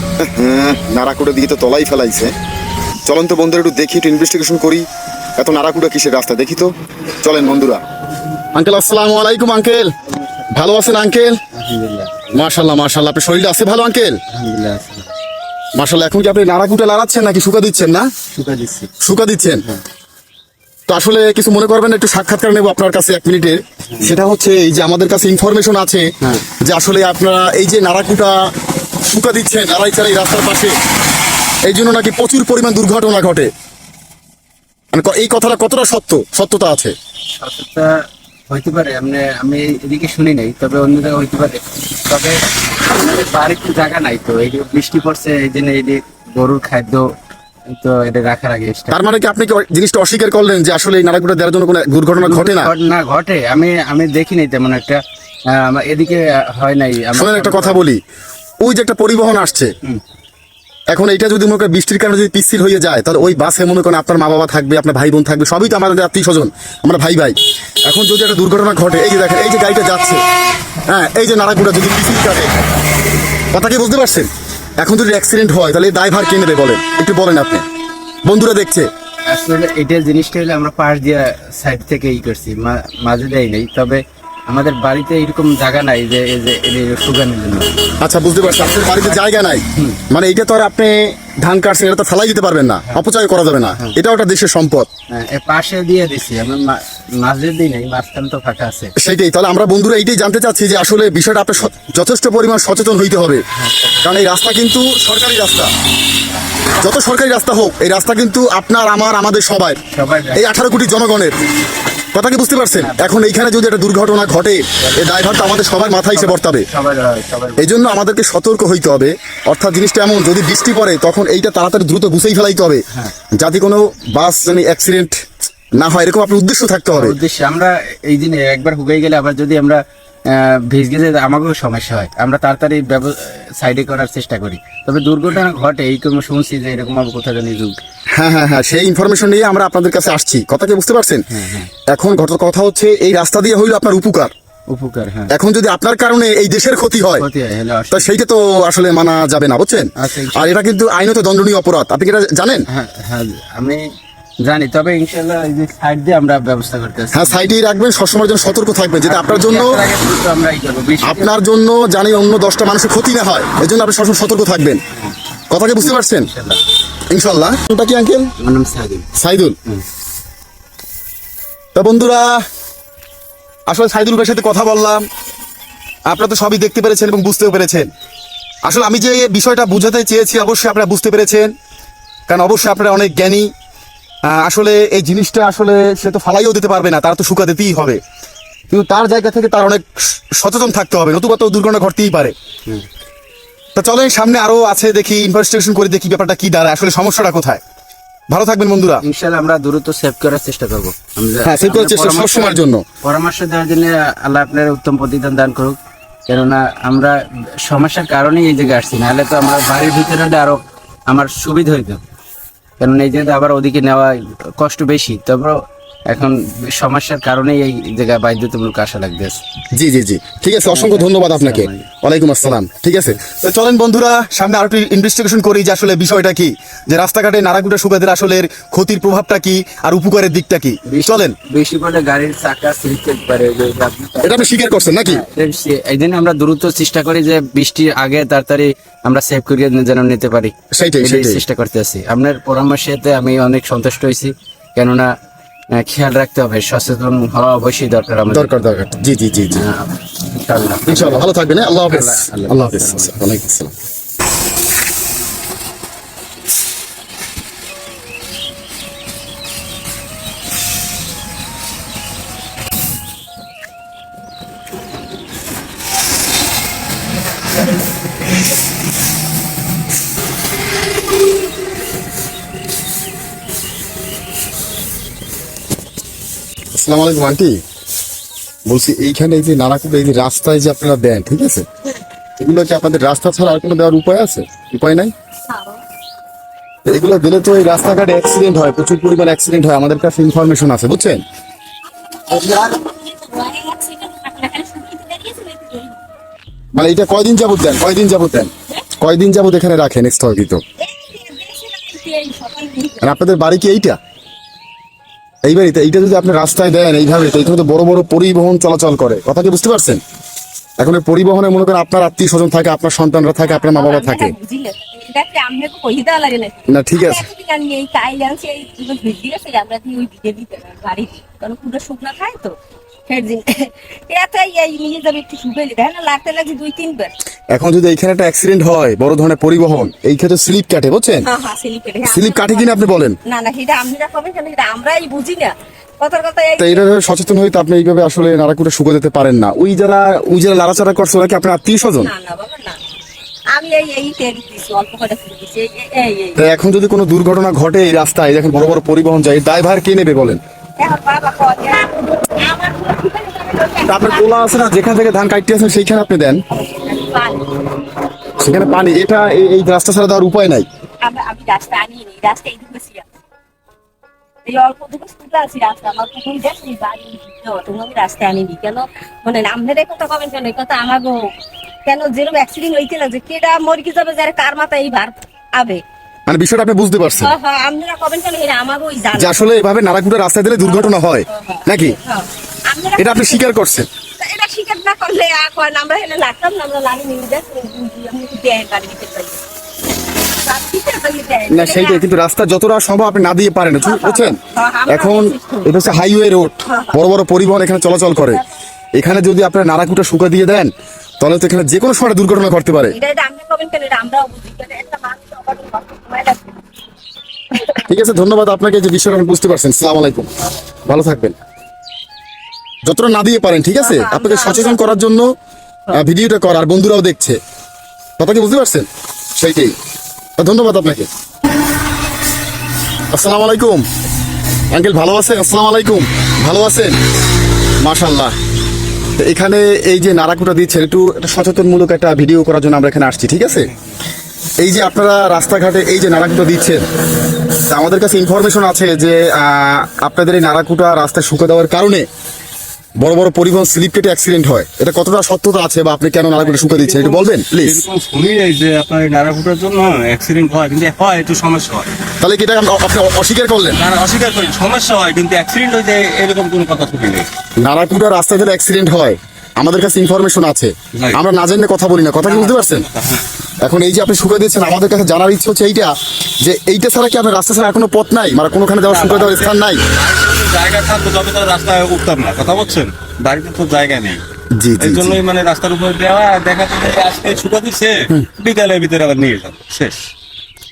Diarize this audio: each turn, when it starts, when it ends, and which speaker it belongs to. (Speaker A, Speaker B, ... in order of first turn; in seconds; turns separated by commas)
Speaker A: 0.2-2.3, Speaker A: 3.0-4.8, Speaker A: 5.4-6.7, Speaker A: 7.2-7.8, Speaker A: 8.5-9.9, Speaker A: 10.5-11.4, Speaker B: 11.5-12.4, Speaker A: 12.3-14.2, Speaker B: 14.3-15.1, Speaker A: 15.7-18.1, Speaker B: 18.3-18.9, Speaker A: 19.0-19.6, Speaker A: 20.9-26.1, Speaker A: 26.6-28.4, Speaker A: 29.0-30.8, Speaker A: 31.6-33.5, Speaker A: 34.9-36.9, Speaker B: 37.4-37.9, Speaker B: 38.5-47.0, Speaker B: 47.8-49.0, Speaker A: 48.9-52.7, Speaker B: 52.2-57.8, Speaker A: 57.1-58.0, Speaker A: 58.6-59.7, Speaker A: 60.9-70.2, Speaker A: 70.9-72.7, Speaker A: 73.5-77.6, Speaker A: 78.2-78.9, Speaker B: 79.3-87.7, Speaker A: 88.0-94.9, Speaker B: 88.8-89.2, Speaker B: 95.1-98.9, Speaker A: 99.0-103.4, Speaker A: 104.0-105.7, Speaker A: 106.8-109.8, Speaker B: 109.9-110.5, Speaker A: 110.3-111.4, Speaker A: 112.1-116.7, Speaker B: 112.7-113.4, Speaker B: 114.8-117.7, Speaker A: 117.6-122.8, Speaker A: 123.3-125.2, Speaker A: 125.7-127.2, Speaker B: 126.9-137.8, Speaker A: 138.1-141.2, Speaker B: 141.3-141.7, Speaker A: 141.9-144.3, Speaker B: 144.7-145.3, Speaker A: 145.3-147.2, Speaker B: 147.2-148.1, Speaker A: 147.9-152.6, Speaker B: 149.9-150.5, Speaker B: 152.7-153.8, Speaker B: 154.4-157.5, Speaker A: 157.1-159.8, Speaker B: 159.0-161.3, Speaker A: 161.0-164.8, Speaker A: 165.5-166.3, Speaker B: 165.8-166.6, Speaker A: 167.1-168.3, Speaker B: 168.4-169.1, Speaker A: 169.2-169.6, Speaker A: 171.7-172.4, Speaker A: 173.7-175.0, Speaker A: 176.1-177.9, Speaker A: 178.6-181.5, Speaker A: 182.3-183.5, Speaker A: 184.2-188.0, Speaker A: 188.7-192.3, Speaker A: 193.7-197.6, Speaker A: 198.3-199.0, Speaker B: 199.0-205.8, Speaker A: 201.4-202.8, Speaker B: 206.3-212.0, Speaker B: 212.8-219.4, Speaker A: 219.7-231.3, Speaker B: 220.7-221.8, Speaker B: 230.9-234.5, Speaker A: 234.2-235.2, Speaker B: 235.0-245.1, Speaker A: 240.7-241.4, Speaker B: 245.8-248.8, Speaker A: 248.3-249.6, Speaker B: 249.5-253.2, Speaker A: 250.9-253.7, Speaker A: 276.7-277.6, Speaker A: 278.6-281.6, Speaker A: 282.4-285.1, Speaker C: 285.5-285.8, Speaker A: 286.9-291.2, Speaker C: 291.9-296.0, Speaker A: 296.7-300.6, Speaker C: 300.8-303.1, Speaker A: 303.0-304.0, Speaker A: 305.4-310.0, Speaker A: 310.8-314.3, Speaker C: 313.4-322.5, Speaker A: 316.7-317.2, Speaker C: 323.1-327.1, Speaker A: 327.5-331.2, Speaker C: 331.2-337.0, Speaker A: 332.0-333.2, Speaker A: 336.6-342.1, Speaker C: 342.0-342.8, Speaker C: 343.5-346.4, Speaker A: 346.4-350.4, Speaker C: 350.8-354.4, Speaker A: 353.9-356.4, Speaker C: 356.5-357.5, Speaker A: 358.4-360.6, Speaker C: 361.0-363.0, Speaker C: 364.4-371.3, Speaker C: 371.8-375.8, Speaker A: 376.3-377.3, Speaker C: 377.1-379.4, Speaker A: 379.1-382.0, Speaker C: 380.6-383.4, Speaker A: 383.0-383.9, Speaker C: 384.2-389.4, Speaker C: 390.4-392.0, Speaker A: 391.5-398.4, Speaker C: 393.8-395.8, Speaker C: 396.7-396.9, Speaker A: 398.9-402.9, Speaker C: 402.9-406.6, Speaker C: 407.5-407.8, Speaker A: 407.9-410.3, Speaker A: 410.9-411.4, Speaker A: 412.8-415.2, Speaker C: 413.8-414.9, Speaker A: 415.9-417.4, Speaker A: 418.2-419.7, Speaker A: 420.4-421.1, Speaker A: 423.1-423.8, Speaker A: 424.7-427.0, Speaker A: 427.8-428.3, Speaker A: 429.2-433.7, Speaker A: 434.6-436.8, Speaker A: 437.7-442.1, Speaker A: 443.0-447.8, Speaker D: 446.4-451.9, Speaker A: 452.2-453.8, Speaker D: 453.8-457.3, Speaker A: 457.6-462.9, Speaker D: 460.9-461.2, Speaker D: 462.2-463.3, Speaker A: 463.6-469.8, Speaker D: 468.9-474.2, Speaker A: 474.6-475.2, Speaker D: 474.8-480.1